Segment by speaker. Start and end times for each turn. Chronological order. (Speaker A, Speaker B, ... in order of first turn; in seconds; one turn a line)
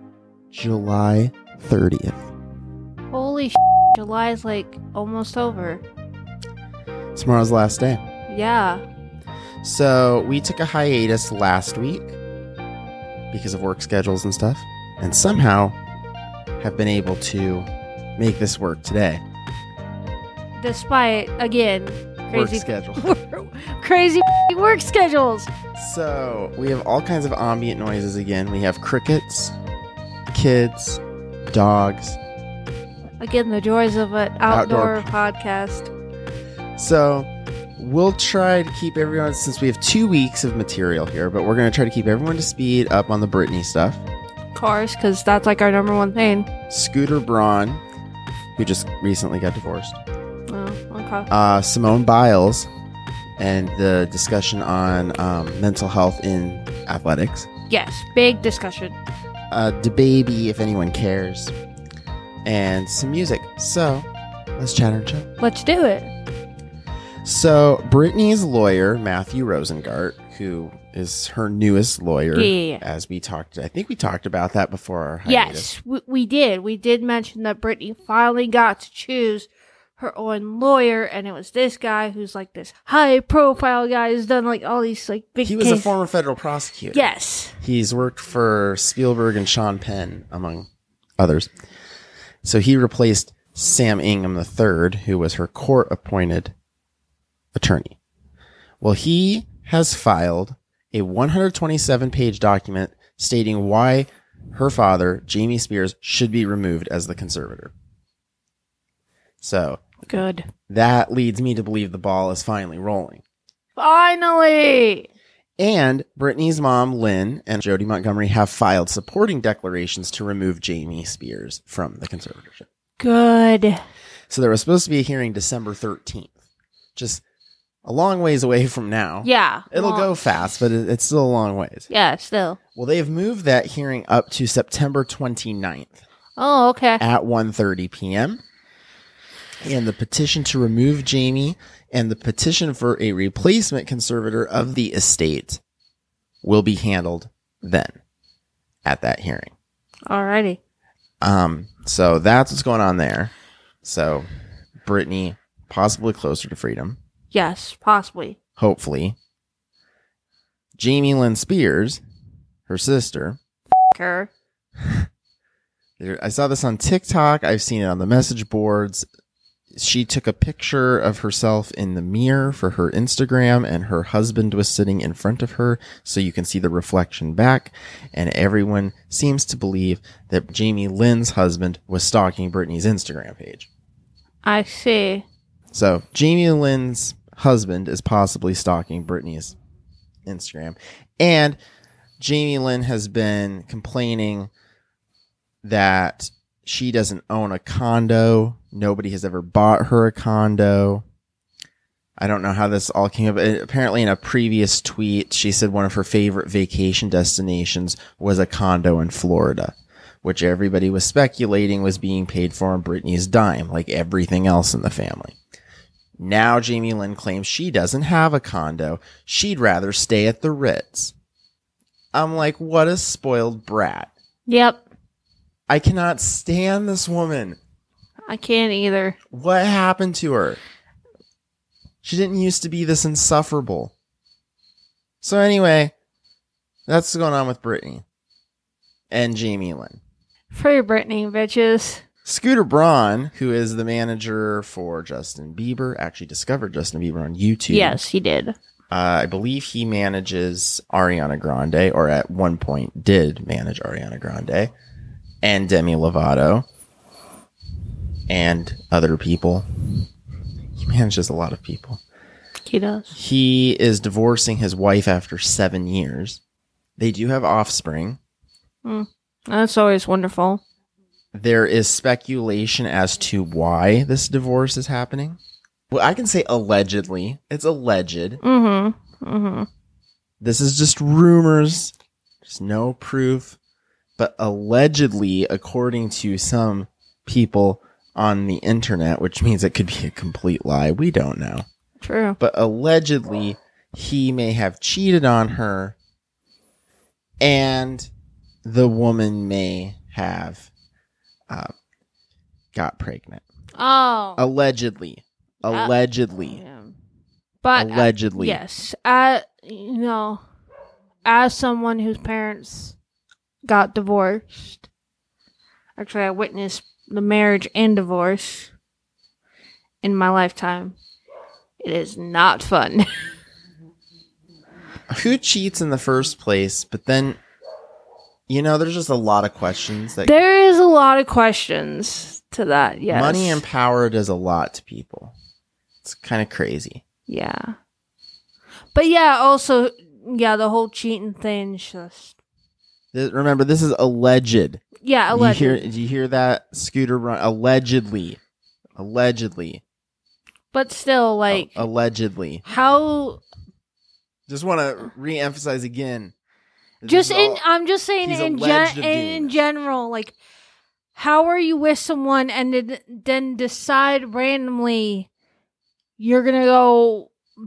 Speaker A: 0.5-2.3
Speaker B: 3.1-5.8
Speaker A: 7.2-8.0
Speaker B: 8.3-8.8
Speaker A: 9.6-12.2
Speaker A: 13.3-15.8
Speaker A: 16.6-19.2
Speaker B: 20.6-25.5
Speaker A: 22.3-23.1
Speaker A: 25.8-29.6
Speaker A: 30.3-32.2
Speaker B: 33.2-35.9
Speaker A: 34.5-35.1
Speaker A: 36.8-44.0
Speaker B: 44.5-46.5
Speaker A: 46.7-47.8
Speaker A: 48.6-50.0
Speaker B: 50.5-51.3
Speaker A: 51.3-52.7
Speaker A: 53.4-57.5
Speaker B: 57.7-59.0
Speaker A: 59.5-61.5
Speaker A: 62.5-65.3
Speaker B: 65.4-66.1
Speaker A: 67.2-75.7
Speaker B: 72.3-72.8
Speaker B: 75.3-85.9
Speaker A: 85.4-87.0
Speaker B: 86.9-87.6
Speaker A: 87.6-90.7
Speaker A: 91.2-91.5
Speaker A: 92.4-96.5
Speaker A: 97.5-98.0
Speaker A: 98.8-107.7
Speaker A: 109.4-109.8
Speaker B: 110.1-110.5
Speaker A: 110.7-113.2
Speaker B: 113.8-115.1
Speaker A: 115.6-122.7
Speaker B: 123.0-123.8
Speaker A: 124.3-126.3
Speaker A: 127.0-127.2
Speaker A: 127.8-131.9
Speaker B: 129.2-130.1
Speaker B: 131.9-132.6
Speaker A: 132.8-136.0
Speaker B: 136.4-137.0
Speaker A: 137.0-138.4
Speaker A: 139.6-145.6
Speaker A: 146.4-148.0
Speaker A: 148.8-149.6
Speaker B: 150.1-150.6
Speaker A: 151.2-153.3
Speaker A: 153.8-154.3
Speaker A: 154.8-157.0
Speaker B: 157.3-158.4
Speaker A: 158.6-159.2
Speaker A: 160.8-162.0
Speaker A: 162.7-163.4
Speaker B: 163.9-164.3
Speaker A: 166.0-169.1
Speaker A: 169.7-183.7
Speaker B: 184.4-185.2
Speaker A: 185.7-189.6
Speaker A: 190.3-191.6
Speaker A: 192.2-194.5
Speaker A: 195.6-201.1
Speaker A: 202.2-215.4
Speaker A: 216.2-221.1
Speaker A: 222.1-224.1
Speaker B: 224.5-224.8
Speaker A: 225.7-227.6
Speaker B: 228.3-229.2
Speaker A: 229.3-230.6
Speaker A: 232.0-233.9
Speaker A: 235.2-235.9
Speaker A: 236.9-238.0
Speaker A: 239.1-240.0
Speaker B: 240.5-242.0
Speaker A: 242.2-248.0
Speaker B: 247.7-248.6
Speaker A: 248.9-254.7
Speaker A: 255.4-256.7
Speaker A: 258.3-259.6
Speaker A: 260.8-262.0
Speaker B: 262.6-263.1
Speaker A: 263.1-266.4
Speaker A: 267.0-268.2
Speaker B: 268.9-270.6
Speaker A: 271.3-275.4
Speaker A: 275.9-278.4
Speaker B: 278.4-279.7
Speaker A: 280.4-281.9
Speaker A: 282.4-283.6
Speaker A: 284.2-291.6
Speaker B: 292.0-292.4
Speaker A: 292.4-296.0
Speaker A: 297.4-298.1
Speaker A: 298.6-300.7
Speaker A: 302.7-303.4
Speaker B: 303.8-304.4
Speaker A: 304.4-306.6
Speaker B: 305.7-305.9
Speaker B: 306.4-306.9
Speaker B: 307.6-310.4
Speaker A: 307.8-308.6
Speaker B: 311.2-313.0
Speaker B: 313.6-314.9
Speaker B: 316.0-318.7
Speaker B: 320.0-321.0
Speaker B: 321.8-323.1
Speaker A: 325.1-327.4
Speaker A: 328.5-330.4
Speaker B: 330.2-333.6
Speaker A: 333.1-335.3
Speaker A: 336.0-337.0
Speaker B: 337.3-337.8
Speaker B: 338.9-342.4
Speaker A: 343.1-348.4
Speaker B: 345.0-345.8
Speaker A: 349.0-349.8
Speaker B: 350.7-351.8
Speaker A: 351.5-352.6
Speaker B: 352.6-353.4
Speaker A: 354.5-356.3
Speaker A: 357.0-357.6
Speaker B: 357.0-360.4
Speaker A: 358.2-359.6
Speaker B: 361.1-365.3
Speaker B: 366.2-367.3